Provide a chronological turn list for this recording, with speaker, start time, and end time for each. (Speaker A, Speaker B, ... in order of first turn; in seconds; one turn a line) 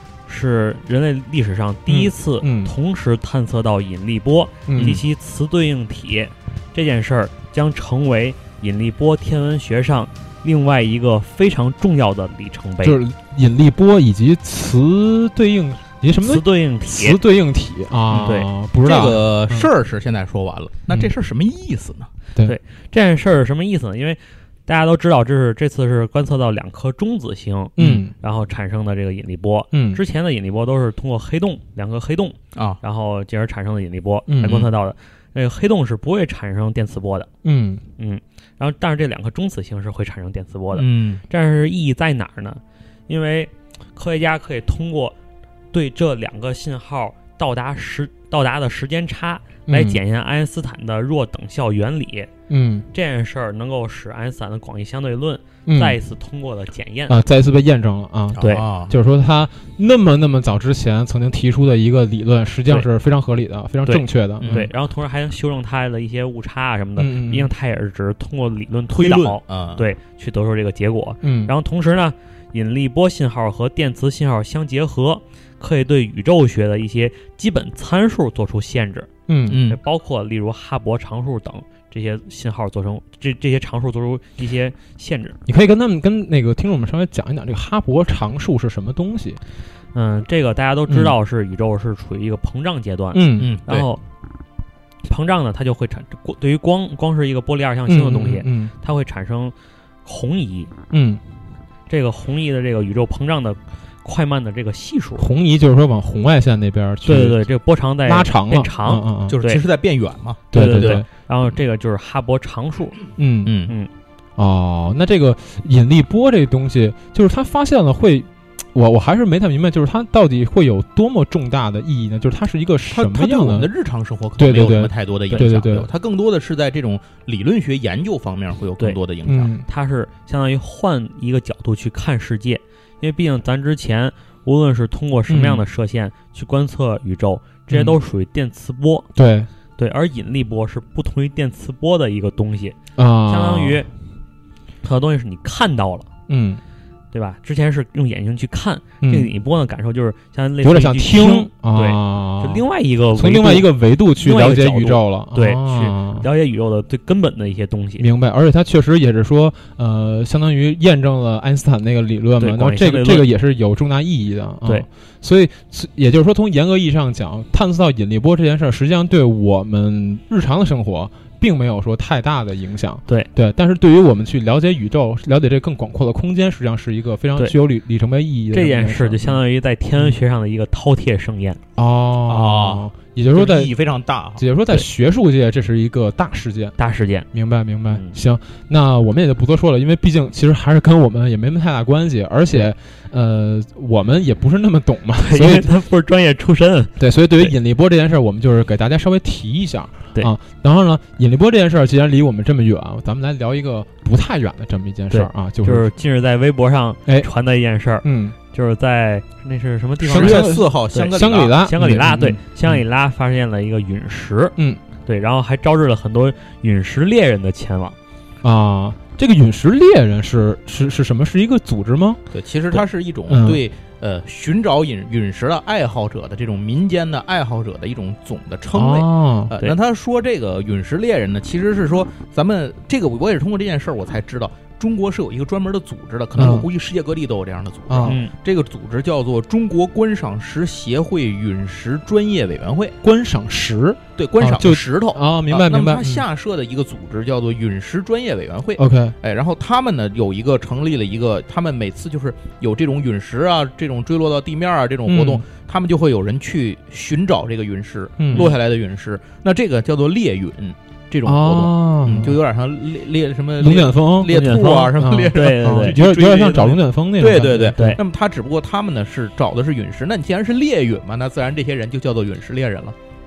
Speaker A: 0.3-13.0
Speaker B: 1.9-2.7
Speaker B: 4.7-5.0
Speaker C: 4.8-5.0
Speaker B: 12.8-19.7
Speaker A: 16.2-17.2
Speaker C: 18.1-22.1
Speaker A: 18.2-18.5
Speaker A: 22.4-37.3
Speaker B: 27.8-28.1
Speaker B: 29.7-30.0
Speaker C: 32.5-32.8
Speaker B: 34.3-34.7
Speaker B: 37.4-37.8
Speaker A: 38.0-45.1
Speaker C: 40.7-41.2
Speaker A: 45.7-52.3
Speaker B: 49.7-50.0
Speaker B: 52.5-52.9
Speaker A: 52.9-57.2
Speaker B: 55.6-56.0
Speaker B: 57.1-64.7
Speaker A: 58.4-58.6
Speaker C: 58.4-58.9
Speaker A: 63.9-79.1
Speaker C: 64.4-64.7
Speaker B: 67.0-67.5
Speaker C: 68.9-69.8
Speaker B: 71.2-71.5
Speaker B: 79.3-79.6
Speaker C: 79.5-79.8
Speaker A: 79.7-85.4
Speaker B: 85.5-89.4
Speaker A: 89.9-94.0
Speaker B: 90.9-91.1
Speaker B: 93.1-93.5
Speaker C: 93.4-93.9
Speaker A: 95.0-99.5
Speaker B: 97.9-98.7
Speaker A: 100.0-100.7
Speaker B: 100.9-101.2
Speaker A: 101.9-105.3
Speaker B: 105.2-107.5
Speaker A: 107.0-109.6
Speaker B: 108.0-109.3
Speaker C: 109.3-111.0
Speaker B: 110.5-111.0
Speaker A: 110.5-113.0
Speaker B: 113.2-113.6
Speaker C: 113.4-113.7
Speaker B: 114.4-123.7
Speaker C: 122.9-129.5
Speaker B: 124.4-125.9
Speaker B: 129.2-129.6
Speaker A: 129.6-139.1
Speaker B: 135.3-135.6
Speaker B: 137.7-137.9
Speaker B: 139.1-139.5
Speaker A: 139.8-142.8
Speaker B: 143.0-143.8
Speaker A: 143.3-143.9
Speaker A: 144.8-146.1
Speaker B: 146.3-146.6
Speaker A: 147.1-158.1
Speaker B: 149.0-149.3
Speaker B: 150.6-152.6
Speaker B: 153.2-156.3
Speaker B: 158.0-179.4
Speaker A: 162.4-163.3
Speaker A: 178.5-181.6
Speaker B: 181.8-183.7
Speaker C: 182.3-184.4
Speaker B: 184.4-186.8
Speaker A: 186.8-187.3
Speaker B: 187.3-195.7
Speaker A: 187.9-188.2
Speaker A: 195.2-197.5
Speaker B: 197.0-205.9
Speaker A: 205.1-217.9
Speaker B: 208.0-208.3
Speaker C: 210.0-211.6
Speaker B: 210.0-212.8
Speaker B: 218.4-222.2
Speaker C: 222.3-242.9
Speaker B: 223.3-223.6
Speaker B: 228.7-229.5
Speaker B: 236.3-236.7
Speaker B: 237.9-238.2
Speaker A: 238.0-238.3
Speaker B: 243.0-246.3
Speaker C: 244.2-272.9
Speaker B: 248.8-249.2
Speaker B: 255.1-255.4
Speaker B: 258.2-258.5
Speaker B: 261.2-262.4
Speaker B: 263.6-268.0
Speaker A: 264.2-266.0
Speaker A: 267.7-268.0